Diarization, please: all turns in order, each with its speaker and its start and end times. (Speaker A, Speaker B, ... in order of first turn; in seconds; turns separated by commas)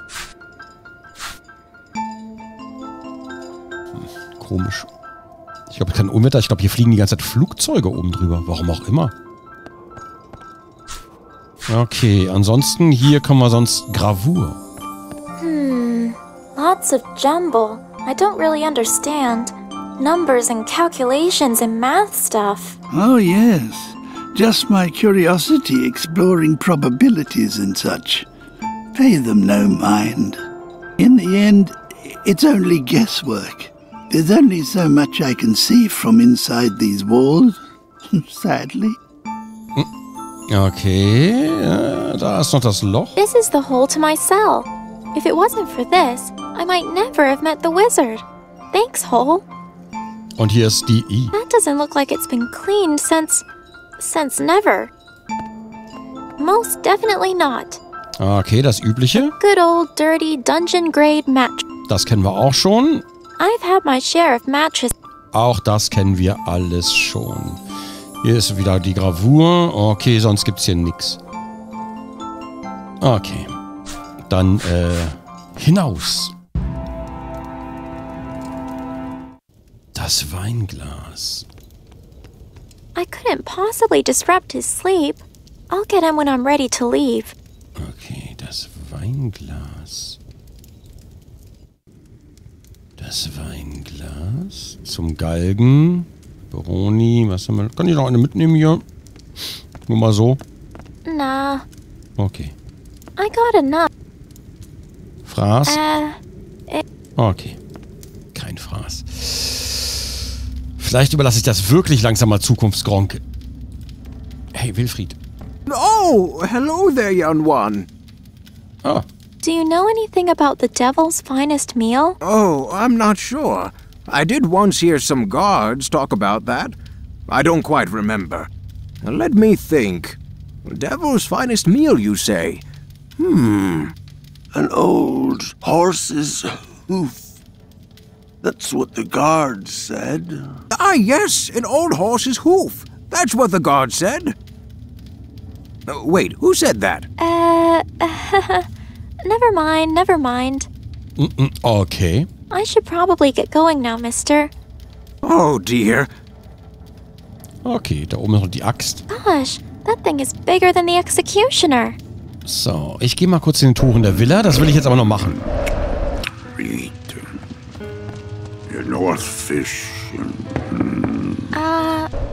Speaker A: 3.9-4.9, Speaker A: 5.7-9.1, Speaker A: 11.7-14.6, Speaker B: 15.4-22.8, Speaker C: 22.9-28.3, Speaker C: 28.9-30.4, Speaker C: 31.0-37.6, Speaker C: 38.1-39.0, Speaker A: 40.5-43.1, Speaker B: 43.1-49.5, Speaker A: 50.4-51.3, Speaker B: 51.3-53.4, Speaker B: 54.0-54.9, Speaker B: 56.4-57.8, Speaker A: 58.2-59.3, Speaker B: 59.1-61.7, Speaker A: 61.9-63.0, Speaker B: 63.4-64.9, Speaker A: 65.3-67.6, Speaker A: 68.2-71.2, Speaker A: 73.0-73.5, Speaker A: 74.2-76.3, Speaker A: 79.9-81.5, Speaker B: 82.9-87.3, Speaker A: 87.8-90.2, Speaker A: 93.0-98.8, Speaker A: 99.8-100.4, Speaker B: 101.0-101.7, Speaker A: 102.2-102.5, Speaker B: 103.2-103.9, Speaker A: 105.2-105.8, Speaker B: 105.7-106.8, Speaker A: 107.2-107.6, Speaker A: 108.3-110.1, Speaker A: 110.8-113.2, Speaker A: 114.5-115.2, Speaker D: 115.7-117.9, Speaker B: 119.4-122.2, Speaker D: 122.2-126.8, Speaker D: 127.3-128.5, Speaker D: 129.0-132.6, Speaker D: 133.2-133.9, Speaker E: 134.5-137.2, Speaker E: 138.4-140.5, Speaker D: 140.7-144.3, Speaker D: 145.9-147.1, Speaker B: 147.2-148.7, Speaker B: 149.2-150.7, Speaker A: 151.2-152.3, Speaker B: 152.5-154.5, Speaker D: 155.2-156.1, Speaker A: 157.6-159.0, Speaker B: 159.1-162.0, Speaker A: 162.4-165.4, Speaker E: 166.6-167.1, Speaker E: 168.7-170.4, Speaker B: 171.5-172.1